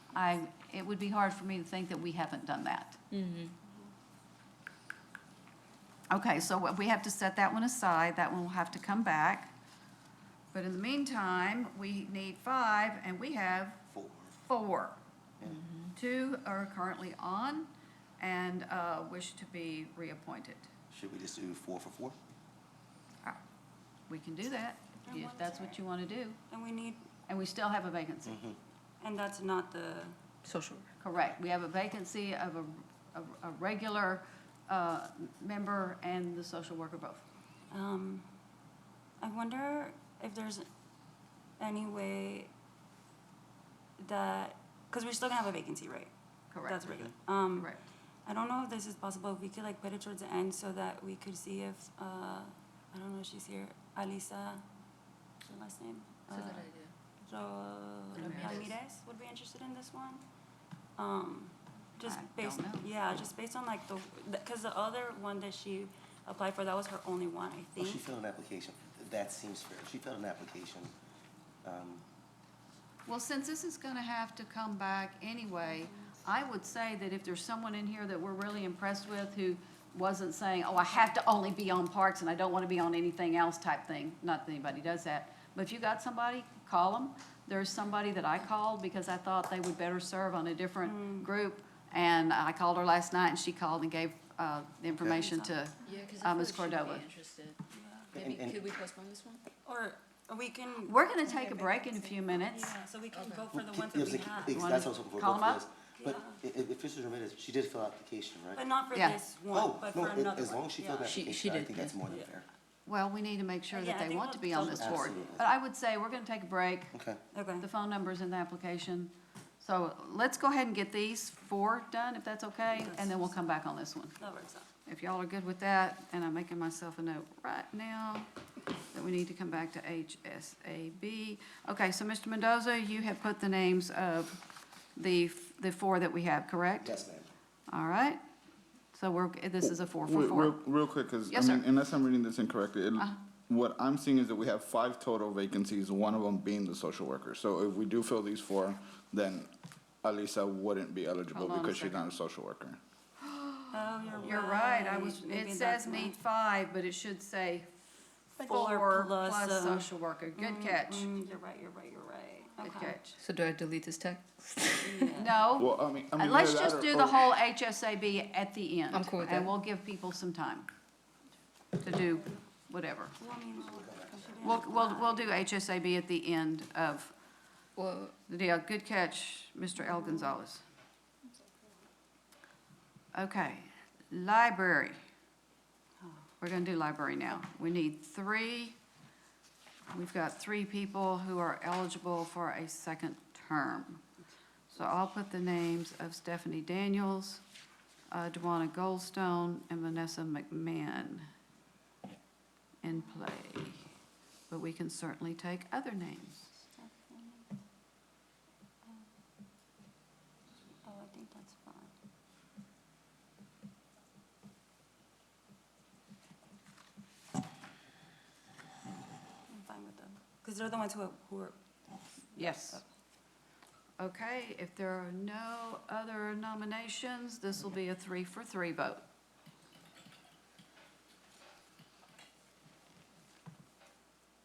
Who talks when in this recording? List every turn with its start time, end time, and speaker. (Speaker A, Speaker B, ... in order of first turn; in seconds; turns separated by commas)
Speaker A: 0.1-3.0, Speaker B: 3.1-3.5, Speaker A: 6.1-9.5, Speaker A: 10.5-13.8, Speaker C: 13.9-14.3, Speaker A: 14.4-15.0, Speaker C: 15.4-15.7, Speaker B: 15.5-15.9, Speaker A: 15.9-20.7, Speaker C: 20.9-22.2, Speaker A: 24.1-26.4, Speaker D: 25.1-25.8, Speaker D: 26.5-27.0, Speaker A: 27.3-28.4, Speaker C: 28.3-28.6, Speaker D: 29.0-30.1, Speaker B: 30.4-30.9, Speaker A: 31.0-37.2, Speaker D: 37.7-38.3, Speaker D: 39.2-40.7, Speaker D: 41.6-42.5, Speaker D: 44.0-46.1, Speaker A: 46.5-46.9, Speaker D: 46.6-47.7, Speaker D: 48.3-54.6, Speaker D: 55.4-56.7, Speaker B: 56.3-56.9, Speaker D: 57.2-60.2, Speaker B: 58.2-58.7, Speaker A: 58.2-58.6, Speaker D: 61.0-68.0, Speaker A: 62.0-62.9, Speaker C: 67.8-70.9, Speaker C: 71.6-72.0, Speaker A: 73.1-97.1, Speaker D: 90.9-91.3, Speaker D: 95.0-95.5, Speaker B: 95.8-97.6, Speaker D: 97.7-98.1, Speaker C: 98.1-98.6, Speaker B: 98.1-99.4, Speaker D: 99.7-104.7, Speaker A: 100.8-102.8, Speaker B: 103.1-103.4, Speaker C: 103.5-108.6, Speaker A: 104.5-105.6, Speaker D: 106.0-106.4, Speaker D: 108.5-111.1, Speaker C: 109.5-112.5, Speaker B: 111.0-112.0, Speaker A: 112.9-116.9, Speaker D: 113.7-115.2, Speaker C: 114.7-115.5, Speaker C: 116.9-117.2, Speaker D: 117.3-117.7, Speaker A: 117.6-124.2, Speaker D: 122.7-123.3, Speaker D: 124.2-124.7, Speaker A: 124.9-128.3, Speaker A: 128.9-134.4, Speaker A: 135.0-136.9, Speaker C: 136.8-137.3, Speaker A: 137.7-138.2, Speaker A: 138.9-140.6, Speaker E: 139.6-149.5, Speaker A: 141.3-141.6, Speaker E: 150.0-152.8, Speaker A: 151.3-152.0, Speaker A: 153.2-157.7, Speaker D: 153.7-156.2, Speaker A: 158.4-161.1, Speaker D: 158.4-163.0, Speaker A: 162.6-163.2, Speaker B: 163.2-165.2, Speaker D: 164.8-165.4, Speaker A: 165.2-170.7, Speaker E: 165.6-167.3, Speaker B: 168.9-169.6, Speaker A: 171.8-173.2, Speaker D: 173.2-175.4, Speaker C: 173.6-174.7, Speaker A: 174.4-177.1, Speaker B: 177.8-178.1, Speaker A: 178.3-180.6, Speaker A: 183.1-184.9, Speaker A: 186.4-188.8, Speaker A: 189.9-194.0, Speaker A: 194.7-197.4, Speaker A: 198.1-201.3, Speaker A: 202.8-203.8, Speaker A: 204.5-206.5, Speaker D: 206.8-207.5, Speaker D: 210.8-211.9, Speaker D: 219.5-221.6, Speaker D: 222.3-222.8, Speaker A: 222.4-222.8, Speaker A: 224.0-229.0